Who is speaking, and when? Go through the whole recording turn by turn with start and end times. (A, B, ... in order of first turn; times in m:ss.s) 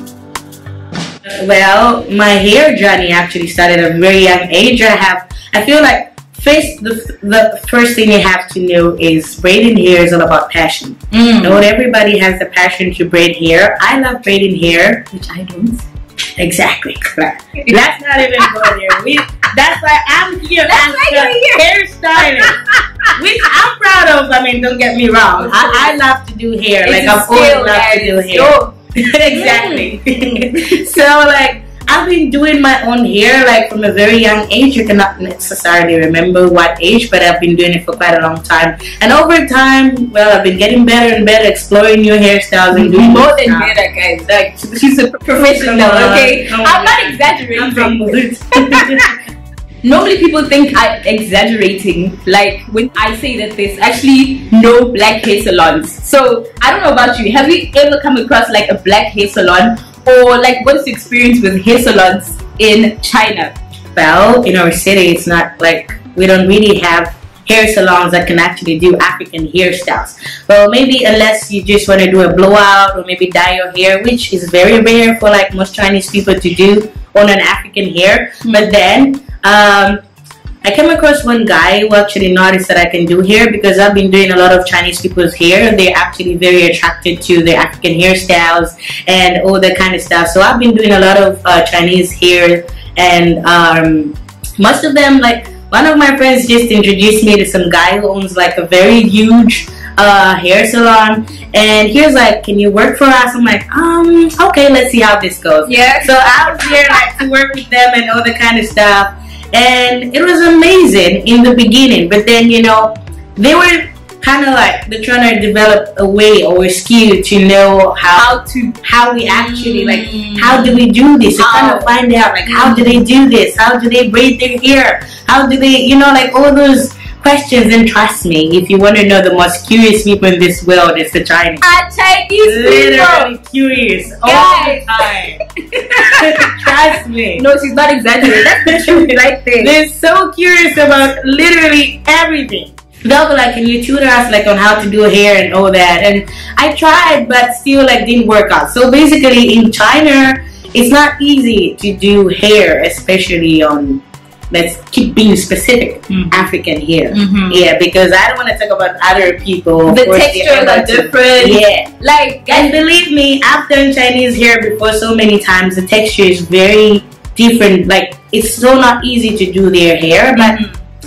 0:01.3-0:15.1 A
0:11.1-0:11.6 B
0:15.1-0:15.8 B
0:16.4-0:22.5 A
0:18.4-0:18.8 B
0:20.7-0:23.1 B
0:23.2-0:43.8 A
0:25.4-0:26.0 B
0:26.8-0:28.8 B
0:29.3-0:30.8 B
0:42.8-0:49.1 B
0:45.4-0:49.2 A
0:49.8-1:03.6 B
1:04.0-1:20.0 A
1:18.4-1:18.7 B
1:20.6-2:11.6 A
1:45.6-1:47.1 B
1:58.1-2:00.8 B
2:01.4-2:01.9 B
2:02.4-2:03.0 B
2:11.6-2:13.3 B
2:12.4-2:15.4 A
2:14.2-2:14.9 B
2:15.7-2:16.5 B
2:16.0-2:17.4 A
2:17.4-2:19.8 B
2:18.2-2:41.9 A
2:36.1-2:36.4 B
2:37.1-2:37.6 B
2:39.9-2:42.8 B
2:42.5-2:50.6 A
2:50.4-2:50.7 B